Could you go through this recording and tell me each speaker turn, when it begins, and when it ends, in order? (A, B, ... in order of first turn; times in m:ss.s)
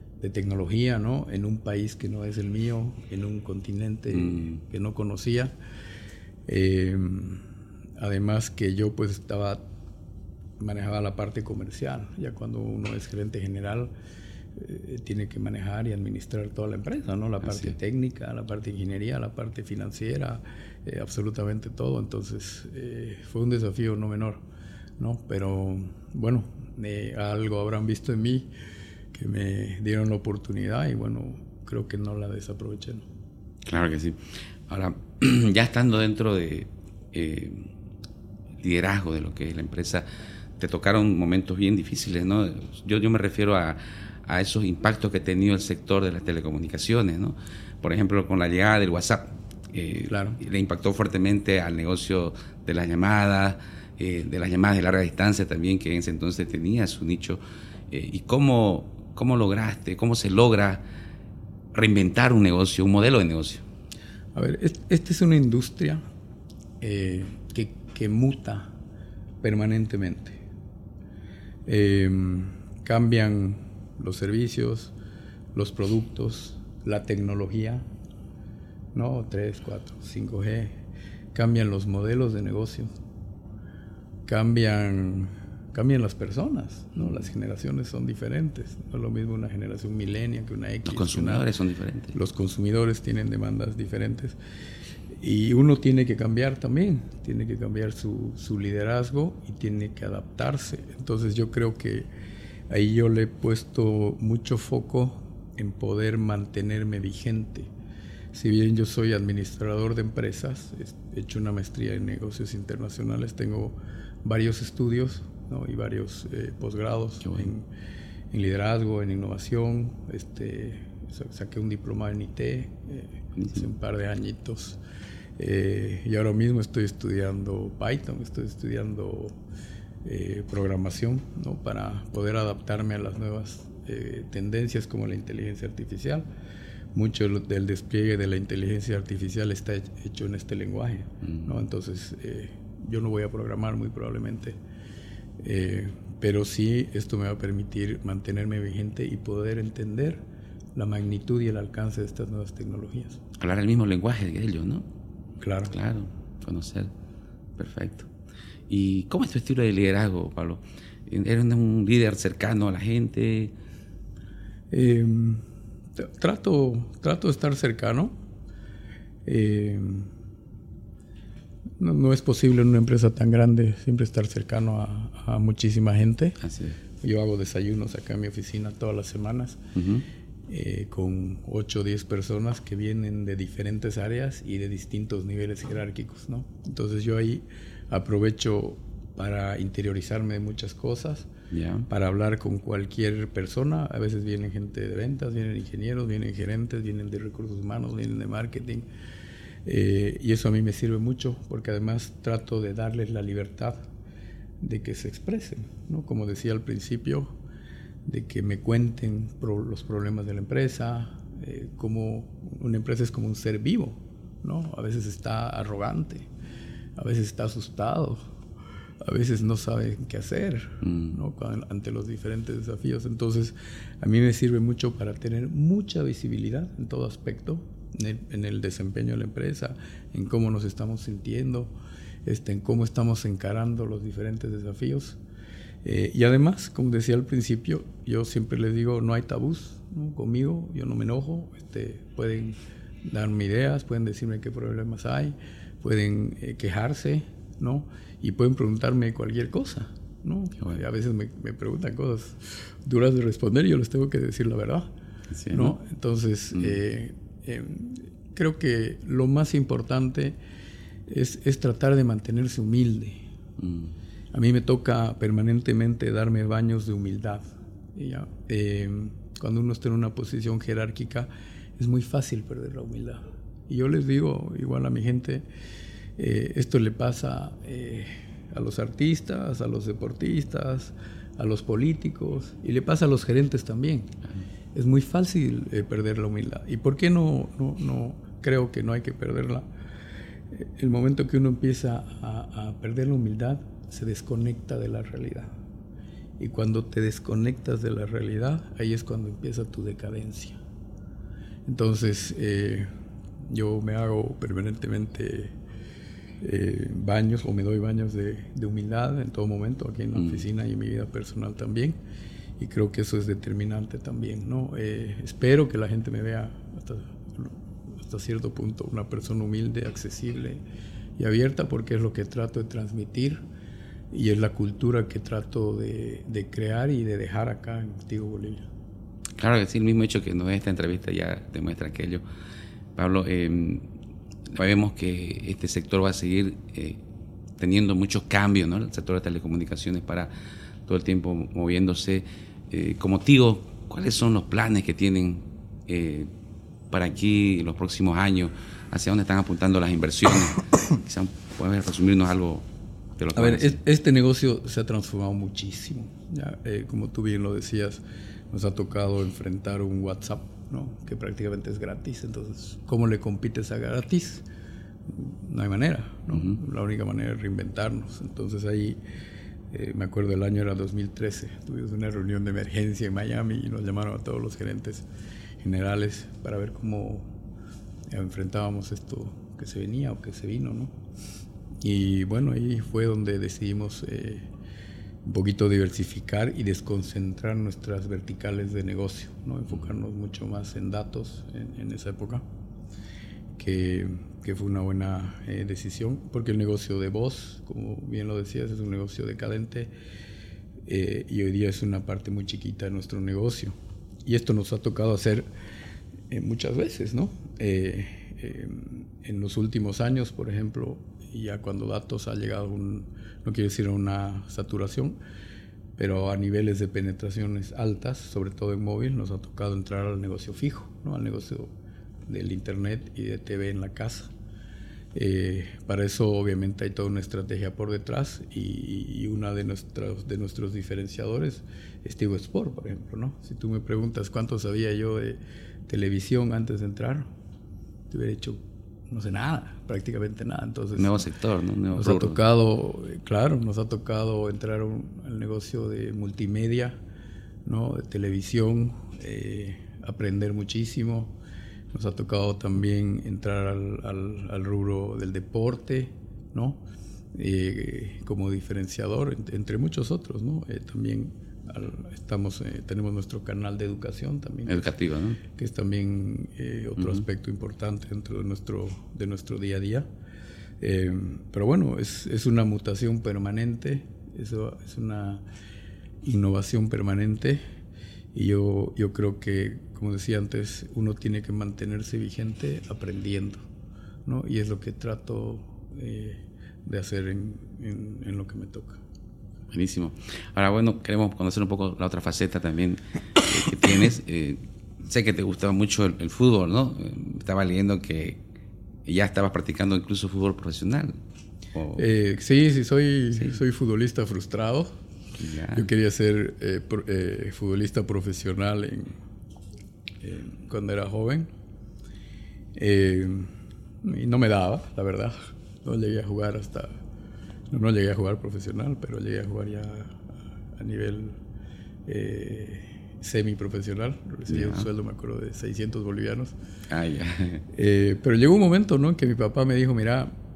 0:00.2-0:05.5 A
0:06.5-0:07.4 A
0:08.0-0:09.6 A
0:10.6-0:13.9 A
0:14.6-0:24.4 A
0:25.0-0:28.5 A
0:29.1-0:33.0 A
0:33.6-0:37.7 B
0:38.6-0:40.1 B
0:40.6-1:00.8 B
0:50.1-0:50.4 A
1:01.7-1:03.6 B
1:04.3-1:06.0 A
1:06.8-1:08.7 A
1:09.4-1:10.4 A
1:11.6-1:14.9 A
1:15.5-1:17.8 A
1:18.9-1:20.8 A
1:21.3-1:22.9 A
1:24.2-1:31.4 A
1:30.8-1:32.1 B
1:32.1-1:34.4 A
1:35.2-1:42.1 A
1:42.7-1:47.7 A
1:48.3-1:57.7 A
1:58.3-2:04.8 A
2:05.4-2:09.4 A
2:10.0-2:16.2 A
2:16.9-2:24.6 A
2:25.4-2:30.2 A
2:30.7-2:33.2 A
2:33.4-2:34.8 B
2:35.4-2:35.7 A
2:35.7-2:36.9 B
2:37.6-2:38.1 B
2:38.7-2:43.5 B
2:44.7-2:45.4 A
2:46.0-2:48.1 A
2:49.2-2:50.1 A
2:51.8-2:56.4 A
2:56.4-2:56.8 B
2:57.0-2:59.6 A
2:59.7-3:00.0 B
3:00.5-3:11.3 A
3:11.5-3:11.9 B
3:11.9-3:18.8 A
3:19.6-3:23.8 A
3:24.6-3:27.3 A
3:28.0-3:36.3 A
3:37.0-3:38.2 A
3:39.0-3:51.7 A
3:40.8-3:41.1 B
3:52.2-3:55.2 A
3:55.8-4:14.9 A
4:15.3-4:15.7 B
4:15.5-4:20.4 A
4:21.1-4:23.2 A
4:23.6-4:23.9 B
4:24.3-4:35.4 A
4:36.2-4:44.1 A
4:44.7-4:49.6 A
4:50.5-4:55.5 A
4:56.4-5:00.6 A
5:01.6-5:02.9 A
5:03.4-5:05.5 A
5:06.4-5:12.0 A
5:10.2-5:10.4 B
5:12.6-5:20.6 A
5:21.2-5:23.4 A
5:24.1-5:28.6 A
5:29.4-5:32.2 B
5:33.0-5:33.8 B
5:34.5-5:37.0 B
5:37.6-5:40.3 B
5:40.8-5:46.3 B
5:46.9-5:52.6 B
5:53.2-5:53.8 B
5:53.3-6:04.4 A
6:05.1-6:09.0 A
6:09.7-6:15.0 A
6:15.6-6:17.3 A
6:18.1-6:20.9 A
6:21.8-6:24.4 A
6:25.2-6:32.4 A
6:33.6-6:39.9 A
6:40.8-6:43.7 A
6:44.2-6:45.5 A
6:46.3-6:55.2 A
6:56.0-7:01.7 A
7:02.3-7:04.3 A
7:05.1-7:17.3 A
7:18.1-7:21.2 A
7:21.0-7:22.4 B
7:21.9-7:27.0 A
7:27.6-7:31.3 A
7:31.9-7:36.8 A
7:37.3-7:44.9 A
7:44.7-7:45.4 B
7:45.5-7:50.0 A
7:50.8-7:55.4 A
7:56.2-7:57.6 A
7:58.3-8:03.6 A
8:04.2-8:09.0 A
8:09.7-8:18.4 B
8:19.0-8:21.2 B
8:21.7-8:22.0 B
8:22.0-8:24.9 A
8:25.4-8:25.9 B
8:25.7-8:29.2 A
8:30.2-8:31.5 A
8:32.8-8:33.5 A
8:34.0-8:36.9 A
8:37.7-8:40.2 A
8:40.7-8:41.4 A
8:42.0-8:46.5 A
8:44.5-8:44.8 B
8:46.9-8:47.6 B
8:47.7-8:50.3 A